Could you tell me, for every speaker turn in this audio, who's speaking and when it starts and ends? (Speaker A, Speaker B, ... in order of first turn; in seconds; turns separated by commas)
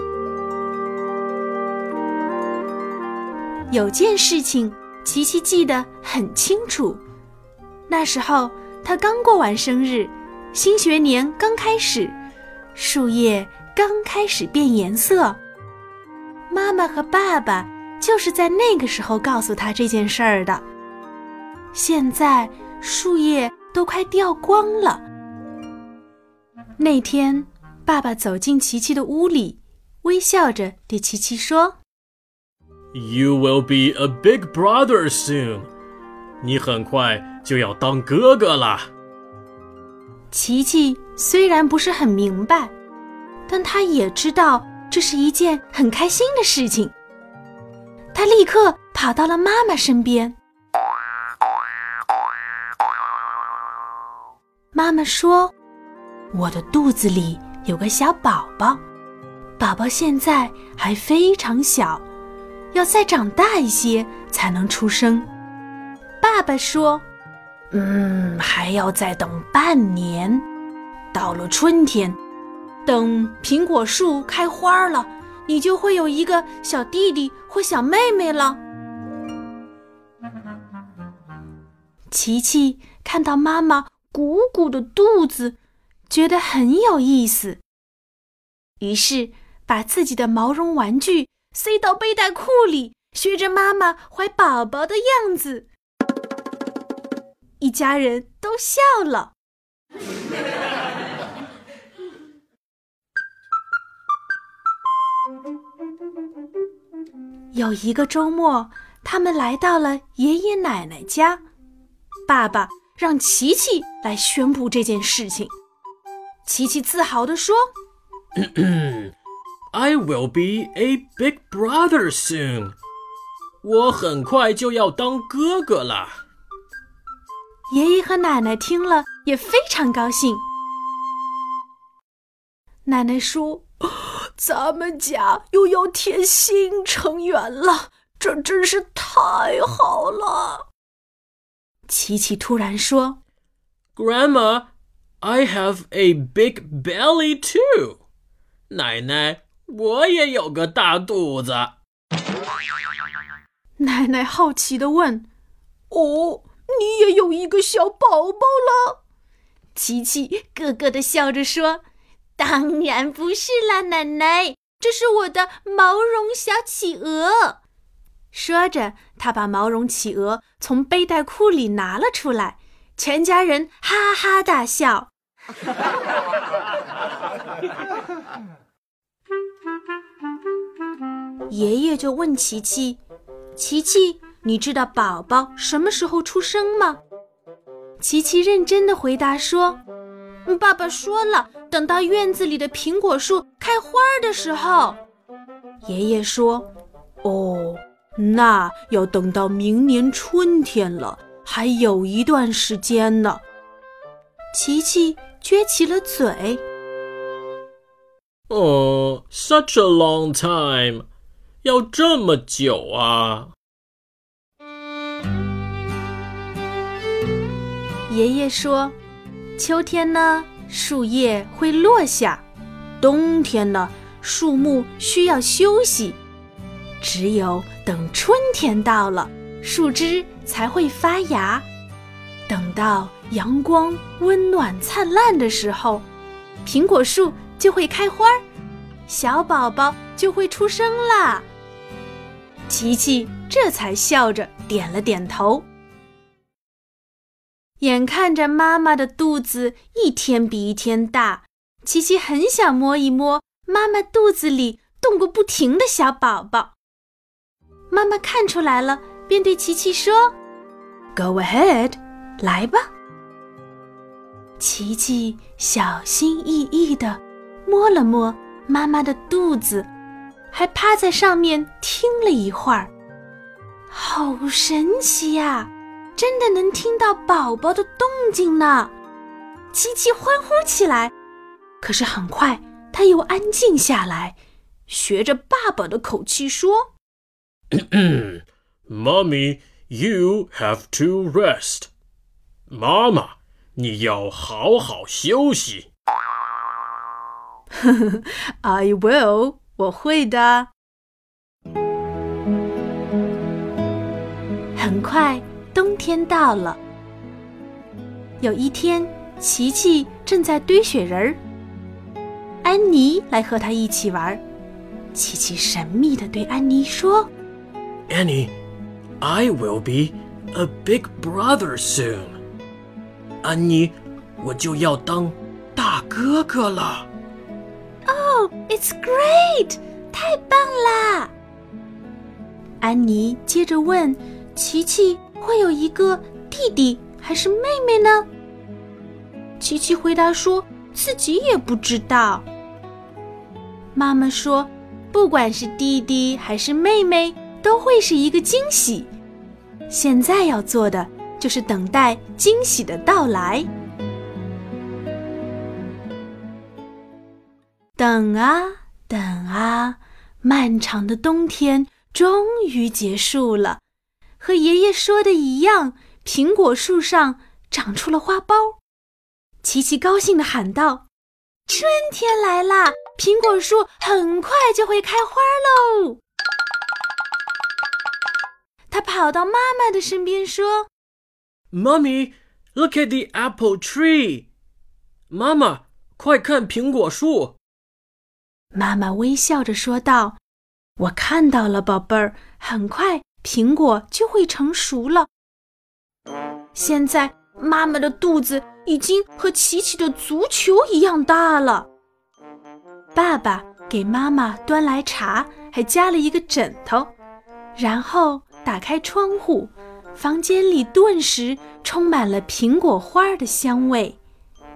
Speaker A: 3.7-7.0, Speaker A: 7.9-12.2, Speaker A: 12.8-15.4, Speaker A: 16.5-20.6, Speaker A: 21.7-25.1, Speaker A: 26.8-31.8, Speaker B: 32.9-35.7, Speaker B: 36.4-38.9, Speaker A: 40.3-42.7, Speaker A: 43.5-46.9, Speaker A: 48.1-50.4, Speaker A: 54.7-55.5, Speaker A: 56.3-58.8, Speaker A: 59.6-62.0, Speaker A: 62.7-65.3, Speaker A: 66.2-67.0, Speaker A: 67.7-70.5, Speaker A: 71.1-72.2, Speaker A: 72.8-78.6, Speaker A: 82.1-85.6, Speaker A: 86.1-87.6, Speaker A: 88.8-95.7, Speaker A: 97.6-99.3, Speaker A: 107.5-111.4, Speaker A: 112.3-115.5, Speaker A: 116.5-117.7, Speaker B: 118.4-119.1, Speaker B: 119.7-122.8, Speaker B: 123.6-126.2, Speaker A: 127.7-130.4, Speaker A: 132.9-140.7, Speaker A: 141.9-143.2, Speaker B: 144.0-144.7, Speaker B: 145.2-148.0, Speaker B: 148.7-151.7, Speaker A: 153.8-155.3, Speaker A: 155.9-159.0, Speaker A: 159.8-161.8, Speaker A: 162.4-167.6, Speaker A: 168.3-175.1, Speaker A: 181.5-183.0, Speaker A: 183.6-187.0, Speaker A: 188.0-189.8, Speaker A: 190.4-195.0, Speaker A: 195.8-196.7, Speaker A: 197.2-203.4, Speaker A: 204.5-206.6, Speaker B: 208.5-211.1, Speaker B: 211.6-213.5, Speaker A: 218.1-219.0, Speaker A: 219.6-222.4, Speaker A: 223.0-226.2, Speaker A: 227.0-231.7, Speaker A: 232.5-236.1, Speaker A: 236.6-238.4, Speaker A: 239.1-241.5, Speaker A: 242.7-245.7, Speaker A: 247.8-256.8, Speaker A: 257.9-260.3, Speaker A: 261.1-262.9, Speaker A: 264.6-269.9, Speaker A: 270.5-272.9, Speaker A: 273.9-278.9, Speaker A: 279.7-281.1, Speaker A: 281.8-284.4, Speaker A: 284.9-286.9, Speaker B: 287.7-291.9, Speaker B: 292.7-295.9, Speaker A: 297.7-300.7, Speaker A: 304.8-306.8, Speaker A: 308.4-311.4, Speaker A: 312.6-314.4, Speaker A: 315.1-317.3, Speaker B: 318.1-318.5, Speaker B: 319.2-322.4, Speaker B: 323.4-327.1, Speaker A: 328.1-331.3, Speaker A: 332.8-338.3, Speaker A: 339.6-342.5, Speaker A: 343.9-349.1, Speaker A: 349.9-353.7, Speaker A: 358.0-363.8, Speaker A: 364.4-368.8, Speaker A: 369.6-371.1, Speaker A: 371.7-376.2, Speaker A: 378.9-380.9, Speaker B: 381.7-384.5, Speaker B: 385.3-387.6, Speaker A: 388.7-390.4, Speaker A: 391.0-395.3, Speaker A: 396.7-401.9, Speaker A: 403.1-407.1, Speaker A: 407.8-414.2